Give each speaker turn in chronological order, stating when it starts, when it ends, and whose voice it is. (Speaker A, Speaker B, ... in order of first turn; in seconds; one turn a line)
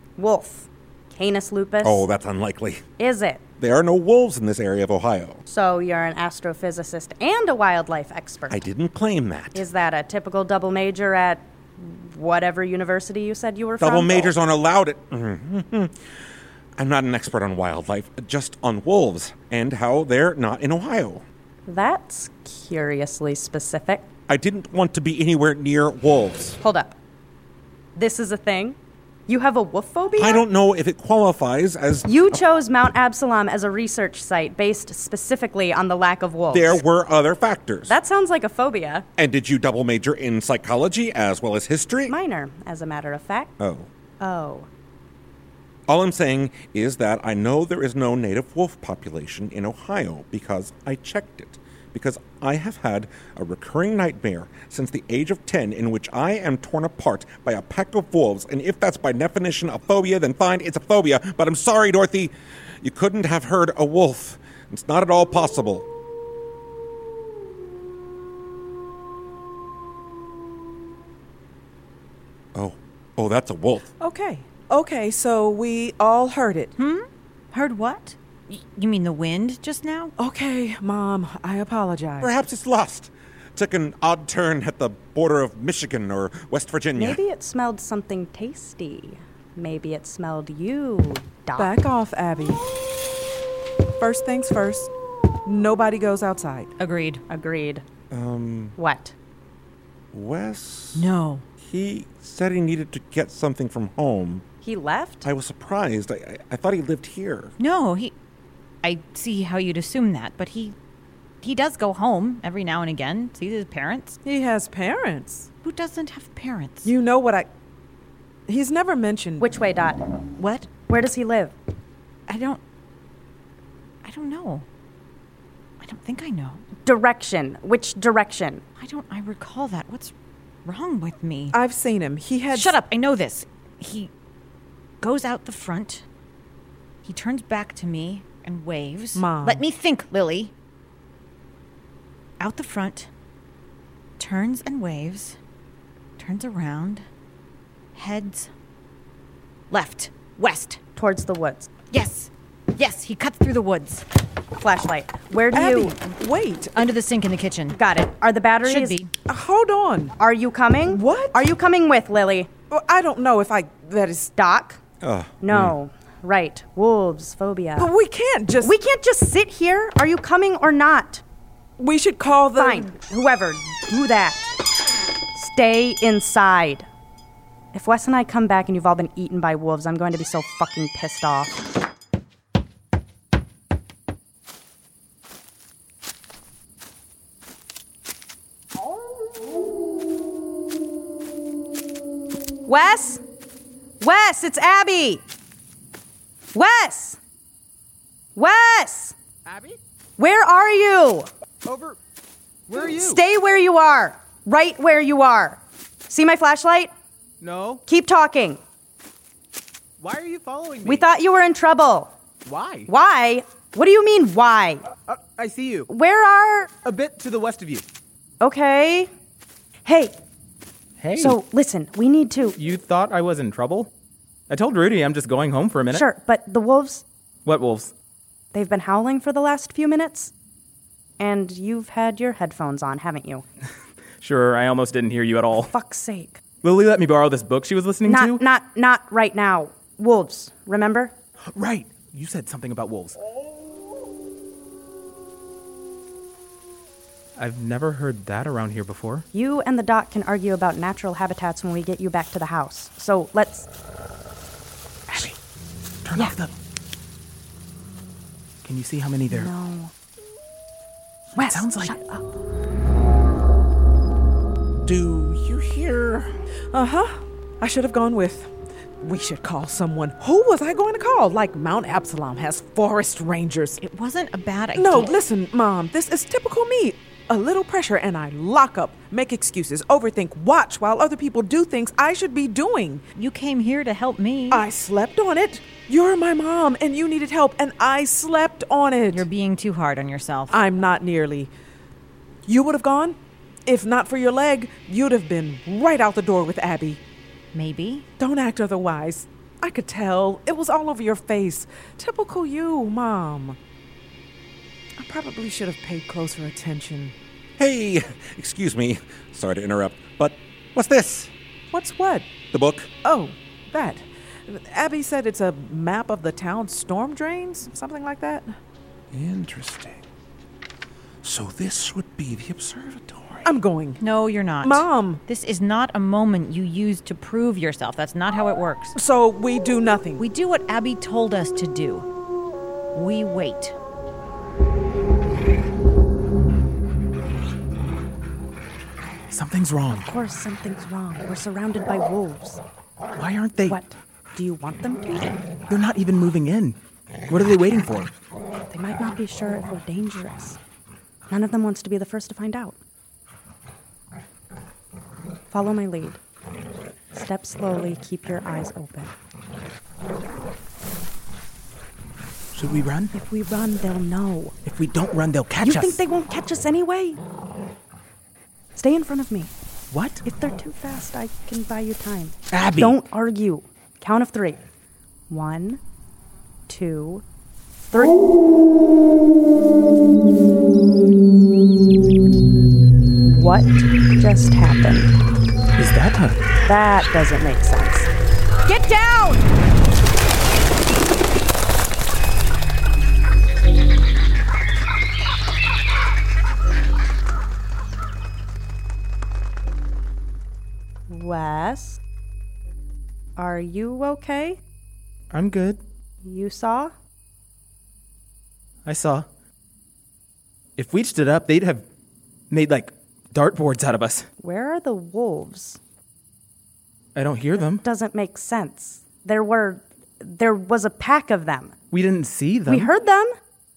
Speaker A: 0.2-2.1
Speaker B: 1.8-2.8
Speaker A: 3.0-3.4
Speaker B: 3.6-5.4
Speaker A: 5.5-8.7
Speaker B: 8.5-9.7
Speaker A: 9.5-14.3
Speaker B: 13.8-16.0
Speaker B: 16.8-21.2
Speaker A: 21.7-24.1
Speaker B: 24.3-26.6
Speaker A: 26.6-26.9
Speaker A: 28.0-28.8
Speaker A: 29.3-30.4
Speaker B: 30.2-32.4
Speaker A: 32.0-36.8
Speaker B: 36.5-38.0
Speaker A: 37.9-39.1
Speaker B: 39.2-42.1
Speaker A: 42.1-43.5
Speaker B: 43.6-43.9
Speaker A: 44.2-44.7
Speaker B: 45.9-65.9
Speaker B: 72.5-73.9
Speaker C: 74.0-76.7
Speaker D: 76.8-80.1
Speaker C: 80.2-82.3
Speaker B: 82.2-87.2
Speaker A: 87.0-91.7
Speaker C: 91.6-92.6
Speaker C: 94.0-94.9
Speaker C: 95.5-96.7
Speaker D: 96.8-97.2
Speaker A: 97.3-97.8
Speaker B: 98.1-98.8
Speaker A: 98.8-99.1
Speaker B: 100.1-101.1
Speaker D: 101.0-101.5
Speaker B: 101.6-104.4
Speaker A: 104.6-105.3
Speaker B: 105.2-107.5
Speaker D: 107.6-108.2
Speaker D: 108.8-110.8
Speaker D: 111.4-114.2
Speaker C: 114.2-115.5
Speaker D: 115.6-116.9
Speaker C: 116.8-117.5
Speaker C: 118.5-119.5
Speaker A: 119.4-120.0
Speaker D: 120.4-120.7
Speaker A: 120.9-121.5
Speaker D: 122.3-122.6
Speaker D: 124.0-124.7
Speaker D: 125.8-126.6
Speaker A: 126.8-128.6
Speaker D: 128.8-130.1
Speaker D: 130.7-131.6
Speaker C: 131.5-132.7
Speaker D: 132.5-134.1
Speaker D: 135.0-136.0
Speaker D: 137.1-140.5
Speaker C: 139.2-139.7
Speaker D: 142.4-143.1
Speaker D: 144.2-145.4
Speaker D: 146.2-147.1
Speaker D: 147.9-148.5
Speaker D: 149.7-150.8
Speaker A: 151.0-151.7
Speaker D: 151.9-154.1
Speaker A: 154.6-155.9
Speaker C: 155.5-156.8
Speaker D: 156.8-157.8
Speaker A: 157.7-159.0
Speaker D: 158.6-159.1
Speaker C: 159.3-160.1
Speaker A: 160.2-162.5
Speaker C: 160.9-161.4
Speaker C: 162.7-164.3
Speaker A: 164.4-164.8
Speaker B: 165.0-165.8
Speaker A: 165.4-167.9
Speaker C: 167.8-168.7
Speaker A: 168.6-171.2
Speaker C: 171.8-172.9
Speaker A: 172.6-174.4
Speaker A: 175.3-176.9
Speaker A: 177.7-181.6
Speaker A: 192.7-193.2
Speaker A: 194.0-195.2
Speaker A: 196.5-197.2
Speaker A: 198.4-199.2
Speaker E: 199.5-199.8
Speaker A: 200.2-201.3
Speaker E: 201.7-202.0
Speaker E: 202.7-203.2
Speaker A: 202.8-206.9
Speaker E: 207.4-207.8
Speaker A: 207.9-208.6
Speaker E: 210.0-211.1
Speaker A: 210.8-212.1
Speaker E: 212.5-212.9
Speaker A: 212.9-214.8
Speaker E: 215.1-215.9
Speaker A: 215.9-216.7
Speaker E: 216.8-217.8
Speaker A: 218.4-219.1
Speaker A: 219.8-220.2
Speaker E: 221.0-221.4
Speaker A: 221.2-222.6
Speaker E: 222.6-223.9
Speaker E: 224.5-226.0
Speaker A: 225.9-227.0
Speaker E: 227.4-227.9
Speaker A: 228.5-230.3
Speaker A: 231.2-233.4
Speaker E: 234.2-235.7
Speaker A: 235.7-236.4
Speaker E: 236.6-238.4
Speaker A: 238.1-241.1
Speaker E: 241.5-243.2
Speaker E: 247.4-249.3
Speaker A: 249.3-253.7
Speaker E: 255.1-255.4
Speaker E: 256.1-256.5
Speaker E: 258.6-259.5
Speaker A: 259.3-259.9
Speaker A: 261.4-262.2
Speaker E: 261.4-261.9
Speaker B: 264.8-266.3
Speaker C: 266.7-273.8
Speaker D: 273.8-275.2
Speaker C: 274.8-283.0
Speaker D: 283.2-284.7
Speaker C: 284.5-289.3
Speaker D: 289.1-290.6
Speaker C: 290.5-291.5
Speaker C: 292.5-297.0
Speaker D: 297.5-298.1
Speaker C: 298.2-303.6
Speaker C: 305.0-307.1
Speaker B: 307.6-311.3
Speaker C: 311.7-312.3
Speaker B: 312.5-312.9
Speaker C: 313.0-318.6
Speaker B: 319.1-320.0
Speaker B: 321.2-323.5
Speaker C: 323.4-324.0
Speaker D: 324.0-329.0
Speaker C: 324.6-325.2
Speaker C: 328.9-330.2
Speaker D: 330.2-332.1
Speaker D: 332.9-333.8
Speaker E: 339.3-340.1
Speaker A: 339.9-342.6
Speaker E: 343.2-343.8
Speaker A: 343.7-345.4
Speaker E: 345.7-346.8
Speaker E: 347.3-348.1
Speaker A: 348.7-350.6
Speaker A: 351.3-352.8
Speaker A: 355.5-356.2
Speaker A: 357.1-359.1
Speaker E: 362.5-363.1
Speaker A: 363.1-364.6
Speaker E: 364.6-366.0
Speaker A: 365.6-367.2
Speaker A: 368.8-369.5
Speaker E: 369.9-370.2
Speaker A: 370.2-374.6
Speaker E: 372.5-373.0
Speaker A: 375.3-375.8
Speaker A: 376.7-377.2
Speaker A: 377.9-378.2
Speaker A: 383.2-385.1
Speaker E: 385.8-386.4
Speaker A: 386.6-388.1
Speaker A: 388.7-389.5
Speaker A: 401.1-402.0
Speaker A: 403.4-404.6
Speaker E: 405.3-405.8
Speaker A: 406.2-406.9
Speaker E: 408.9-409.3
Speaker E: 410.8-411.9
Speaker E: 412.5-414.3
Speaker A: 414.4-415.8
Speaker E: 417.1-417.8
Speaker A: 417.6-421.8
Speaker E: 421.9-422.9
Speaker A: 422.7-423.3